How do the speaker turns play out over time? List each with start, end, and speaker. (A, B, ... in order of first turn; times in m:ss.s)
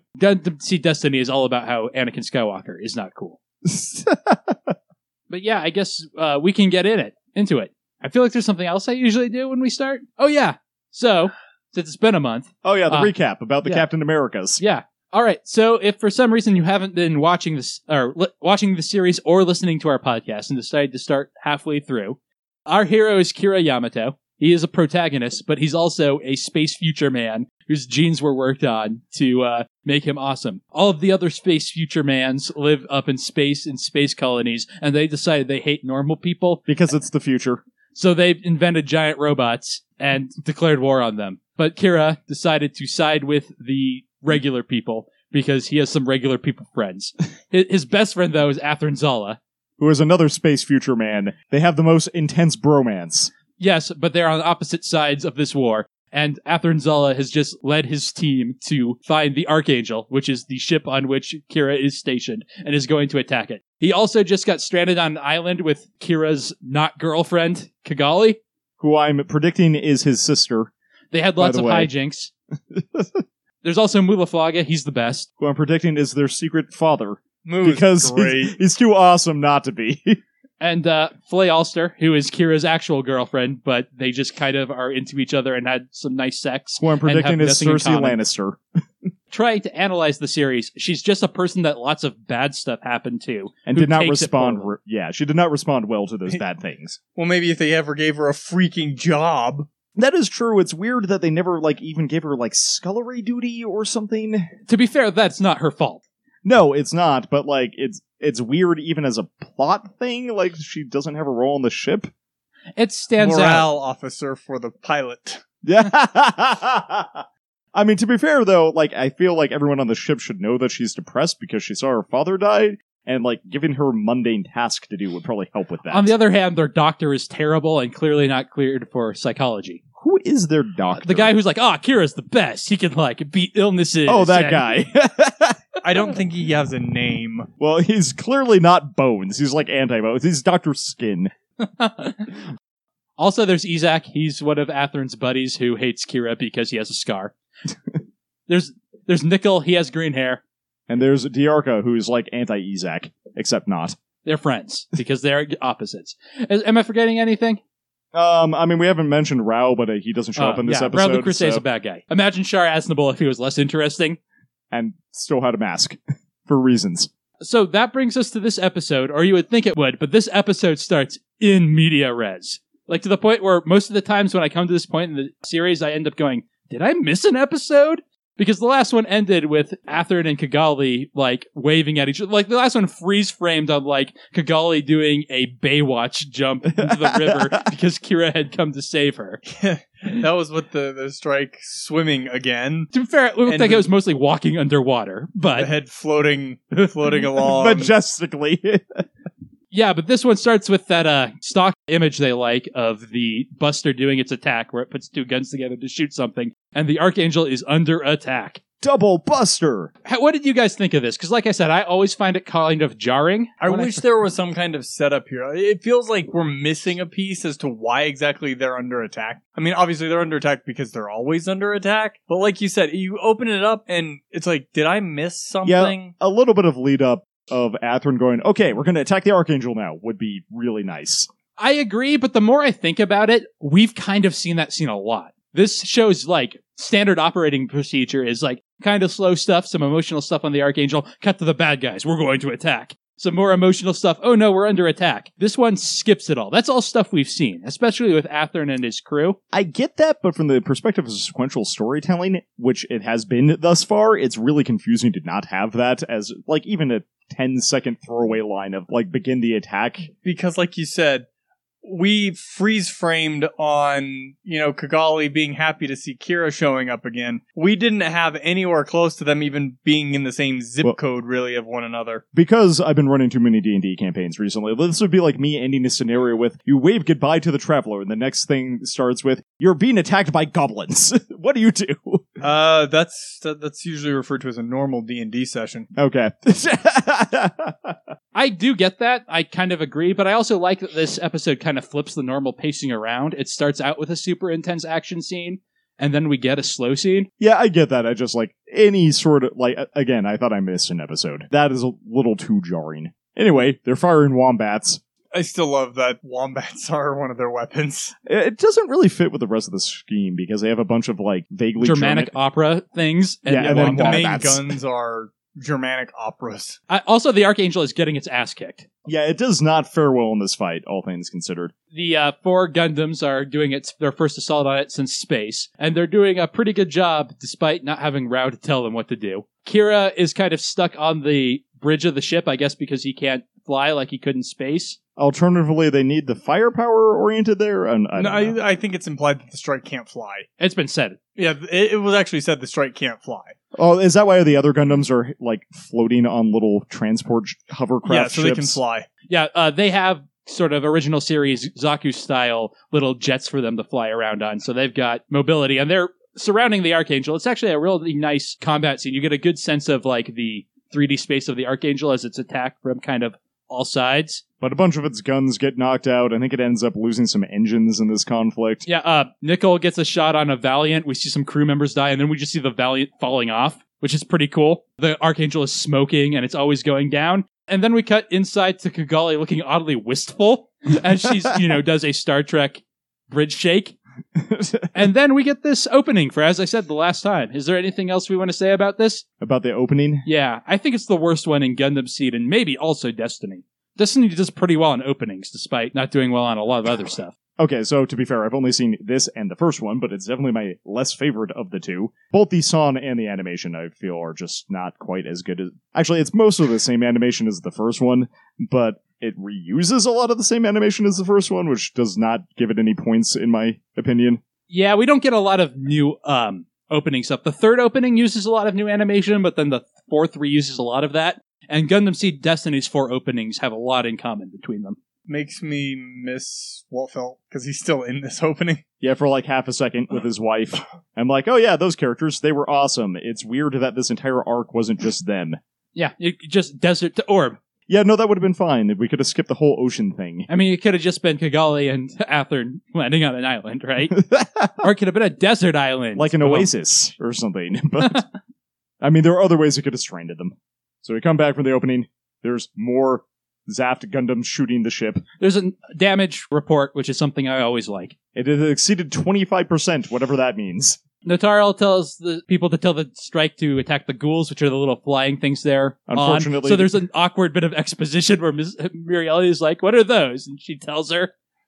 0:00.2-0:03.4 A
0:03.6-0:04.7 B
0:05.3-0:13.1 A
0:12.6-0:14.6 B
0:14.6-0:36.6 A
0:36.6-0:37.6 B
0:37.9-0:49.4 A
0:49.8-0:53.3 B
0:53.6-1:08.4 A
1:08.8-1:10.7 B
1:11.1-1:12.3 A
1:11.4-1:11.9 B
1:12.7-1:13.2 B
1:13.6-1:15.3 A
1:15.4-1:20.2 B
1:17.4-1:18.6 C
1:20.6-1:28.2 A
1:26.8-1:28.6 B
1:29.3-1:34.7 A
1:33.6-1:37.0 B
1:37.1-1:39.7 C
1:40.0-1:44.5 B
1:44.7-1:46.0 A
1:46.4-1:52.1 B
1:52.8-1:53.7 A
1:53.2-1:55.4 C
1:55.6-1:57.2 B
1:57.7-2:06.1 B
2:05.9-2:09.8 A
2:10.0-2:11.3 B
2:11.0-2:14.7 A
2:14.0-2:16.1 B
2:15.8-2:17.5 C
2:17.6-2:21.3 B
2:21.6-2:22.3 A
2:23.2-2:27.3 A
2:28.5-2:30.4 A
2:30.9-2:34.0 B
2:34.2-2:37.6 A
2:38.1-2:41.6 B
2:40.4-2:44.2 A
2:44.7-2:47.1 B
2:47.4-3:09.4 A
3:06.7-3:07.7 B
3:09.4-3:12.9 C
3:12.9-3:15.7 A
3:13.5-3:13.9 C
3:15.5-3:17.9 C
3:17.4-3:19.0 B
3:19.7-3:28.6 A
3:28.8-3:29.9 B
3:30.0-3:34.0 A
3:33.6-3:46.1 C
3:45.6-3:51.3 B
3:51.6-4:09.4 A
4:09.5-4:20.1 B
4:20.2-4:21.2 C
4:21.8-4:32.2 C
4:32.3-4:42.2 B
4:42.4-4:45.9 C
4:45.9-4:48.0 B
4:48.3-4:57.3 A
4:57.4-5:05.0 B
5:05.3-5:08.1 C
5:08.3-5:12.3 B
5:11.8-5:14.3 A
5:13.5-5:14.7 B
5:13.6-5:16.8 C
5:16.9-5:18.8 A
5:19.0-5:21.7 B
5:21.9-5:35.0 A
5:35.2-5:38.6 B
5:38.2-5:40.5 C
5:40.6-5:41.2 A
5:41.4-5:43.5 C
5:43.7-5:48.8 B
5:48.0-5:49.1 C
5:49.3-6:04.4 A
6:04.6-6:08.8 B
6:08.8-6:23.9 A
6:24.4-6:24.9 B
6:24.9-6:29.2 A
6:29.4-6:30.2 B
6:30.2-6:37.3 A
6:37.6-6:54.4 B
6:54.7-7:05.0 A
7:05.3-7:08.8 C
7:09.0-7:15.6 B
7:15.9-7:17.6 A
7:17.9-7:20.5 B
7:20.5-7:24.2 A
7:24.1-7:24.9 B
7:24.8-7:26.7 A
7:26.2-7:28.2 B
7:29.0-7:35.2 B
7:35.4-7:38.1 A
7:38.3-7:41.0 B
7:41.2-7:51.3 A
7:46.1-7:47.0 B